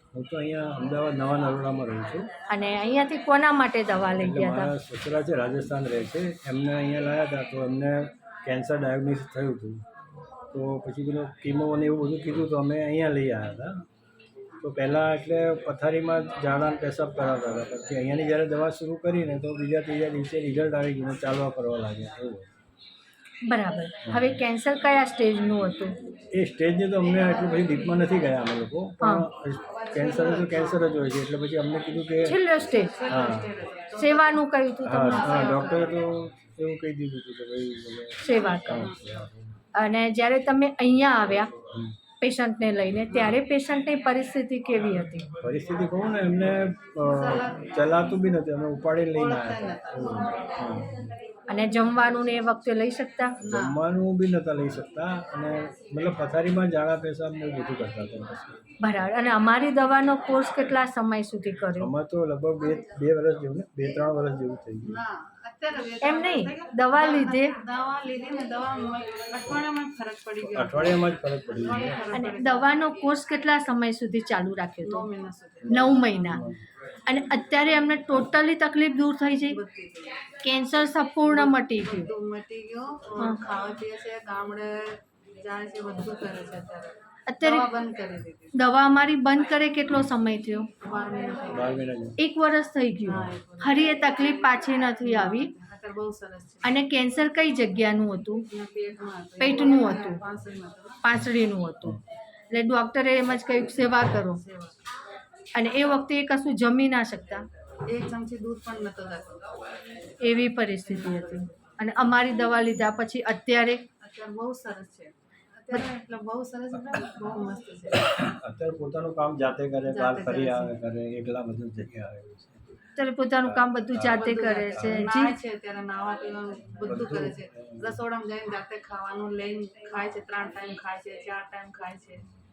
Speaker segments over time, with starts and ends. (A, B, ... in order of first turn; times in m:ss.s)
0:00.1-0:02.3 A
0:02.5-0:04.7 B
0:04.2-0:09.8 A
0:10.5-0:13.8 A
0:14.6-0:22.5 A
0:23.4-0:26.0 B
0:24.0-0:24.4 A
0:26.3-0:32.4 A
0:29.0-0:29.3 B
0:29.8-0:30.8 C
0:32.2-0:33.0 B
0:32.6-0:36.0 C
0:33.1-0:33.5 A
0:34.0-0:35.6 B
0:34.8-0:39.5 A
0:38.2-0:38.9 B
0:38.5-0:39.2 C
0:39.8-0:41.5 B
0:42.2-0:45.3 B
0:43.1-0:43.4 C
0:45.4-0:51.0 A
0:47.1-0:47.7 C
0:49.1-0:50.3 C
0:51.5-0:53.4 B
0:53.4-0:53.8 C
0:53.4-0:58.6 A
0:58.8-1:01.9 B
1:01.8-1:05.0 A
1:04.8-1:13.2 C
1:06.0-1:07.6 B
1:10.4-1:12.1 A
1:12.1-1:15.1 B
1:14.8-1:16.5 C
1:15.7-1:16.4 B
1:16.3-1:16.6 A
1:17.1-1:19.6 B
1:19.4-1:20.2 C
1:20.4-1:22.1 B
1:21.3-1:28.6 C
1:27.3-1:27.7 B
1:28.5-1:30.7 B
1:30.8-1:31.8 C
1:31.5-1:32.2 A
1:32.2-1:35.5 B
1:33.0-1:36.8 C
1:36.6-1:38.4 B
1:38.5-1:41.0 C
1:39.4-1:40.2 B
1:41.0-1:44.4 B
1:44.3-1:44.8 C
1:45.6-1:47.5 B
1:47.9-1:49.5 C
1:50.2-1:53.8 B
1:50.8-1:51.6 C
1:54.0-1:58.1 C
1:58.0-2:02.8 A
1:59.9-2:00.8 C
2:03.0-2:05.3 B
2:03.4-2:05.1 A
2:04.1-2:12.3 C
2:06.8-2:08.0 A